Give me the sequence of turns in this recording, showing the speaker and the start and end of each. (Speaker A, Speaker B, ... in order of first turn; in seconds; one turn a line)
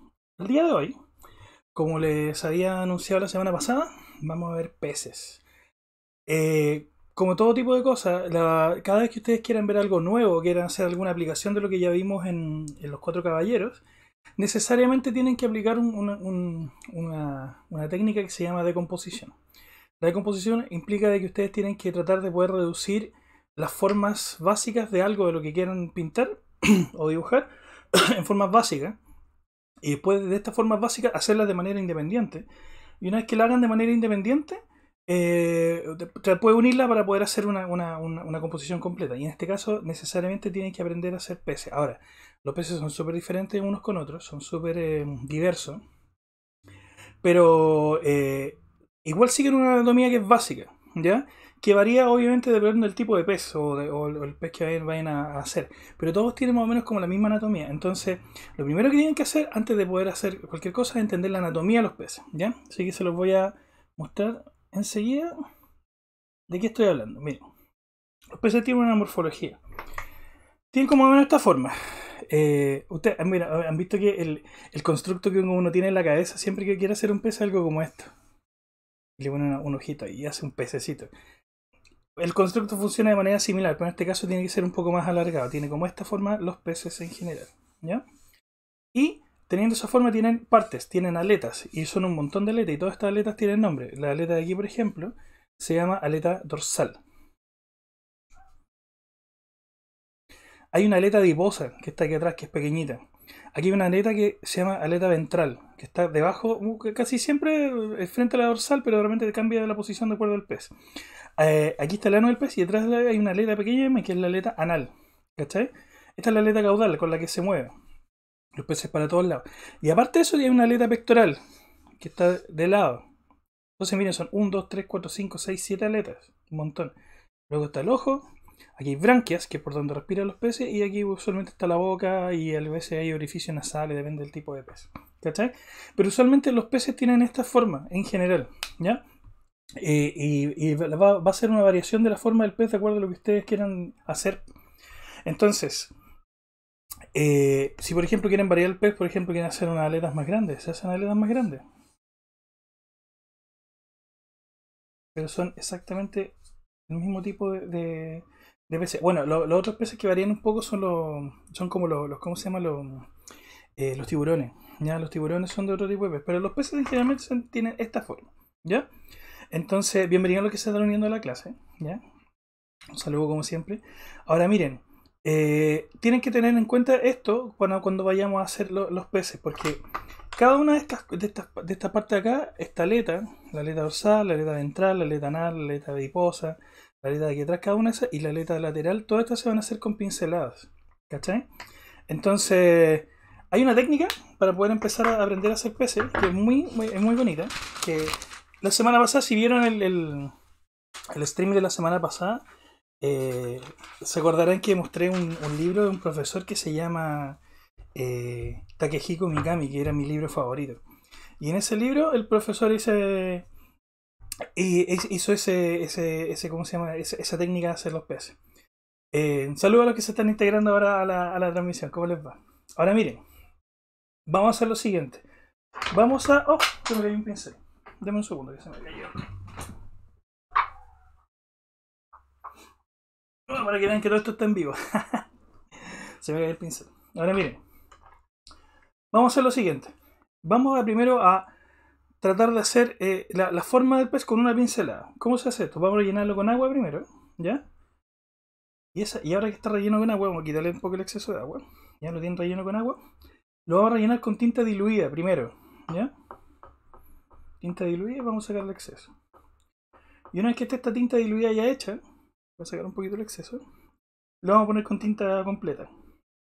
Speaker A: 0.4-0.9
Speaker A: 1.7-5.4
Speaker A: 6.3-13.8
Speaker A: 14.4-19.3
Speaker A: 20.0-29.0
Speaker A: 29.8-32.5
Speaker A: 33.0-45.8
Speaker A: 47.2-65.3
Speaker A: 66.5-67.4
Speaker A: 68.3-69.6
Speaker A: 70.7-78.1
Speaker A: 79.2-81.1
Speaker A: 82.2-88.0
Speaker A: 88.9-97.0
Speaker A: 100.7-110.7
Speaker A: 111.4-117.7
Speaker A: 118.5-121.4
Speaker A: 122.0-123.1
Speaker A: 123.8-126.9
Speaker A: 127.5-139.0
Speaker A: 139.8-144.4
Speaker A: 145.2-145.9
Speaker A: 147.1-151.6
Speaker A: 155.1-156.3
Speaker A: 156.9-163.1
Speaker A: 163.8-168.9
Speaker A: 169.5-172.0
Speaker A: 172.9-179.8
Speaker A: 180.3-191.4
Speaker A: 192.1-200.3
Speaker A: 201.1-202.4
Speaker A: 203.0-207.4
Speaker A: 207.9-210.8
Speaker A: 211.4-213.5
Speaker A: 214.6-218.4
Speaker A: 219.1-223.2
Speaker A: 224.3-225.2
Speaker A: 225.9-229.2
Speaker A: 233.5-235.3
Speaker A: 235.8-237.6
Speaker A: 239.1-241.5
Speaker A: 242.2-247.6
Speaker A: 248.9-253.0
Speaker A: 253.7-256.1
Speaker A: 257.6-259.1
Speaker A: 260.3-262.0
Speaker A: 262.6-263.6
Speaker A: 264.4-265.9